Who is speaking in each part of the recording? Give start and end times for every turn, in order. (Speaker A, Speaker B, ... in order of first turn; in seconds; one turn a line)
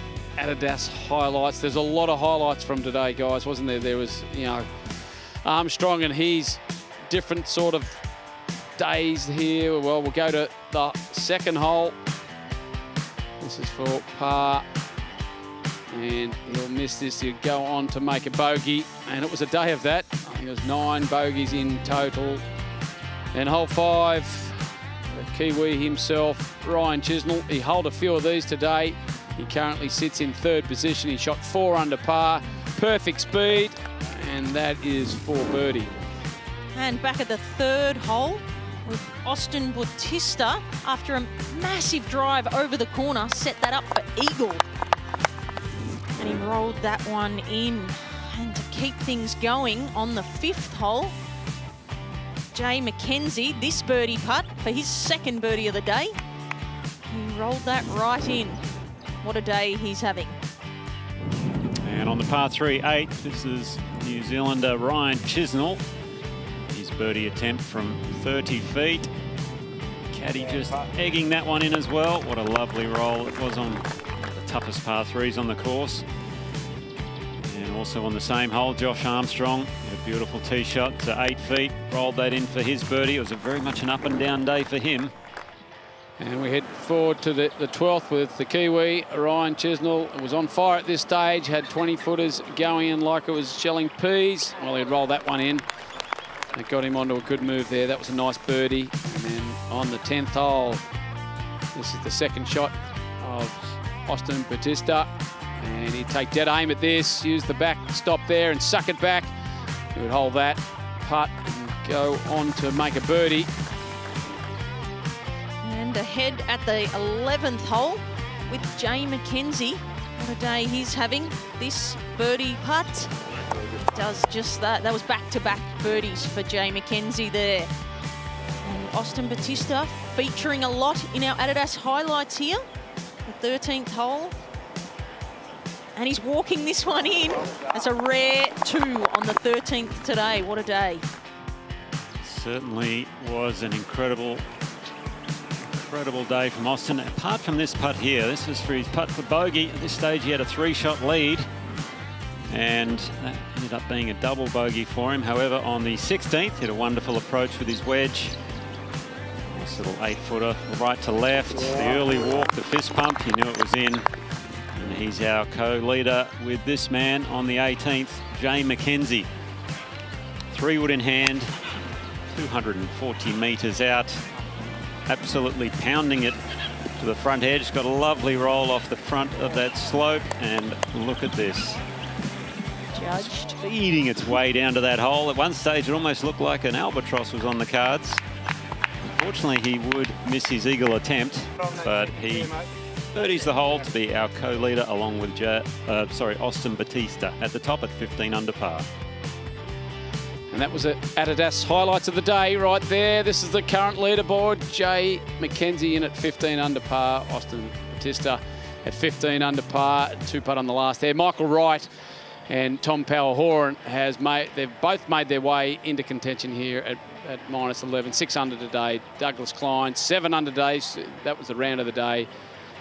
Speaker A: 0.4-4.7
Speaker A: 5.4-8.0
Speaker A: 8.8-12.0
Speaker A: 13.4-14.7
Speaker A: 15.9-22.4
Speaker A: 23.3-24.6
Speaker A: 25.1-35.9
Speaker B: 36.8-44.6
Speaker B: 46.2-51.1
Speaker B: 52.5-56.1
Speaker B: 57.1-58.6
Speaker B: 59.2-60.4
Speaker C: 61.8-65.8
Speaker C: 66.7-69.1
Speaker C: 70.1-76.0
Speaker C: 77.4-85.1
Speaker A: 86.2-95.6
Speaker A: 96.5-100.8
Speaker A: 101.7-109.3
Speaker A: 109.9-113.5
Speaker B: 115.6-123.1
Speaker B: 123.8-127.7
Speaker B: 128.6-132.6
Speaker B: 133.3-134.3
Speaker B: 136.0-141.0
Speaker C: 142.2-144.4
Speaker C: 145.7-151.4
Speaker C: 152.5-158.4
Speaker C: 159.5-164.1
Speaker C: 164.8-169.3
Speaker C: 170.5-171.5
Speaker C: 172.3-174.2
Speaker C: 175.1-176.4
Speaker C: 177.0-181.8
Speaker B: 182.9-183.6
Speaker C: 183.6-188.2
Speaker C: 189.2-198.9
Speaker A: 200.5-211.9
Speaker A: 212.5-222.3